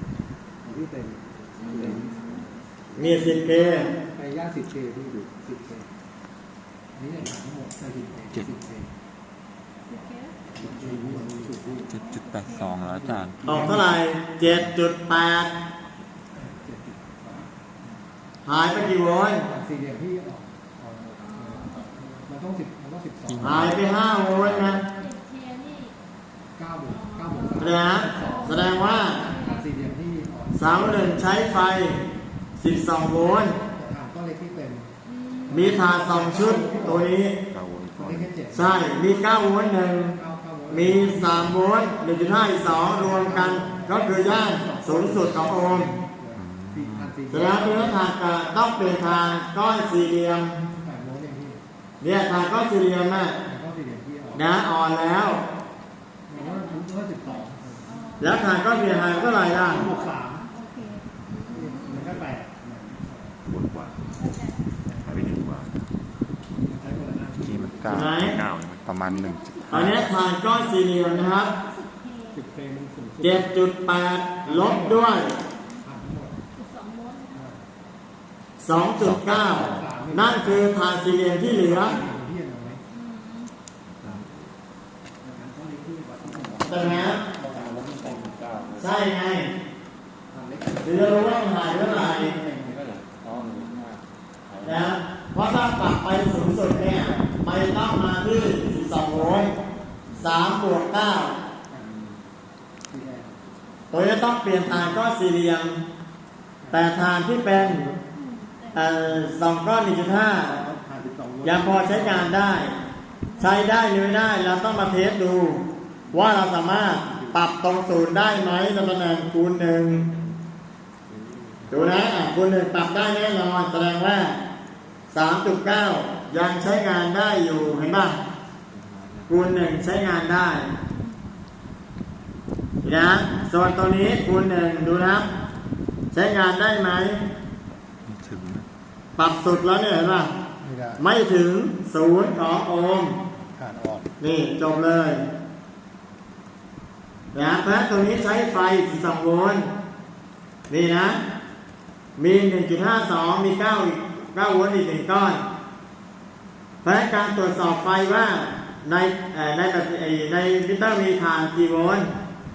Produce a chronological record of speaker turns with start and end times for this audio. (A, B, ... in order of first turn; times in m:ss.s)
0:00.6-0:02.2 A
0:01.6-0:02.5 B
0:03.0-0:03.9 C
0:04.1-0:05.9 A
0:07.0-0:08.9 A
0:09.9-0:10.4 B
0:10.6-0:11.8 A
0:11.8-0:12.8 B
0:11.9-0:13.9 D
0:13.5-0:15.5 C
0:16.6-0:17.5 A
0:18.5-0:19.5 C
0:19.5-0:23.5 A
0:21.2-0:22.0 B
0:23.3-0:23.8 D
0:23.4-0:24.8 C
0:24.4-0:24.8 D
0:25.0-0:26.0 B
0:26.6-0:31.0 A
0:26.9-0:29.7 B
0:27.6-0:29.2 C
0:30.6-0:32.0 C
0:32.6-0:33.6 C
0:33.7-0:34.9 A
0:35.0-0:35.8 B
0:35.5-0:37.4 C
0:35.6-0:37.1 A
0:37.5-0:38.3 D
0:38.0-0:38.8 A
0:38.5-0:40.2 C
0:40.2-0:41.4 A
0:40.7-0:46.0 C
0:42.7-0:47.9 A
0:46.3-0:47.2 D
0:47.3-0:50.6 C
0:50.8-0:51.6 A
0:52.0-0:53.4 C
0:53.5-0:54.4 A
0:54.3-0:55.4 C
0:56.3-0:57.8 A
0:56.3-1:02.2 B
0:58.2-0:59.9 C
0:59.6-1:00.4 A
1:01.5-1:03.4 A
1:03.5-1:04.2 D
1:04.0-1:04.7 B
1:05.0-1:05.9 D
1:06.7-1:07.4 A
1:07.4-1:10.2 D
1:07.9-1:08.4 C
1:09.1-1:10.1 B
1:09.7-1:11.5 C
1:11.6-1:12.4 B
1:12.4-1:13.4 A
1:13.2-1:15.4 C
1:14.5-1:15.0 A
1:15.9-1:16.3 A
1:16.6-1:17.5 B
1:18.6-1:22.0 C
1:19.0-1:19.9 D
1:19.6-1:20.6 A
1:21.7-1:22.8 A
1:22.9-1:23.5 B
1:24.0-1:24.4 D
1:25.2-1:28.3 A
1:26.7-1:27.2 C
1:28.8-1:29.5 C
1:30.3-1:33.0 A
1:30.8-1:32.4 C
1:33.3-1:33.9 B
1:34.6-1:39.6 C
1:40.1-1:41.4 C
1:41.7-1:42.1 A
1:42.9-1:43.3 A
1:43.9-1:45.8 C
1:46.7-1:47.9 C
1:48.1-1:48.9 B
1:48.7-1:50.6 C
1:50.5-1:52.3 A
1:51.4-1:52.8 C
1:53.2-1:53.6 B
1:53.4-2:00.1 C
2:01.7-2:04.4 C
2:05.1-2:08.2 C
2:09.3-2:10.7 C
2:12.8-2:15.3 C
2:16.1-2:17.2 C
2:18.1-2:18.7 D
2:19.2-2:20.3 C
2:20.6-2:21.0 A
2:21.0-2:23.2 C
2:23.6-2:24.0 A
2:24.2-2:25.2 C
2:27.3-2:29.7 C
2:30.7-2:31.2 C
2:32.2-2:35.4 C
2:36.8-2:42.1 C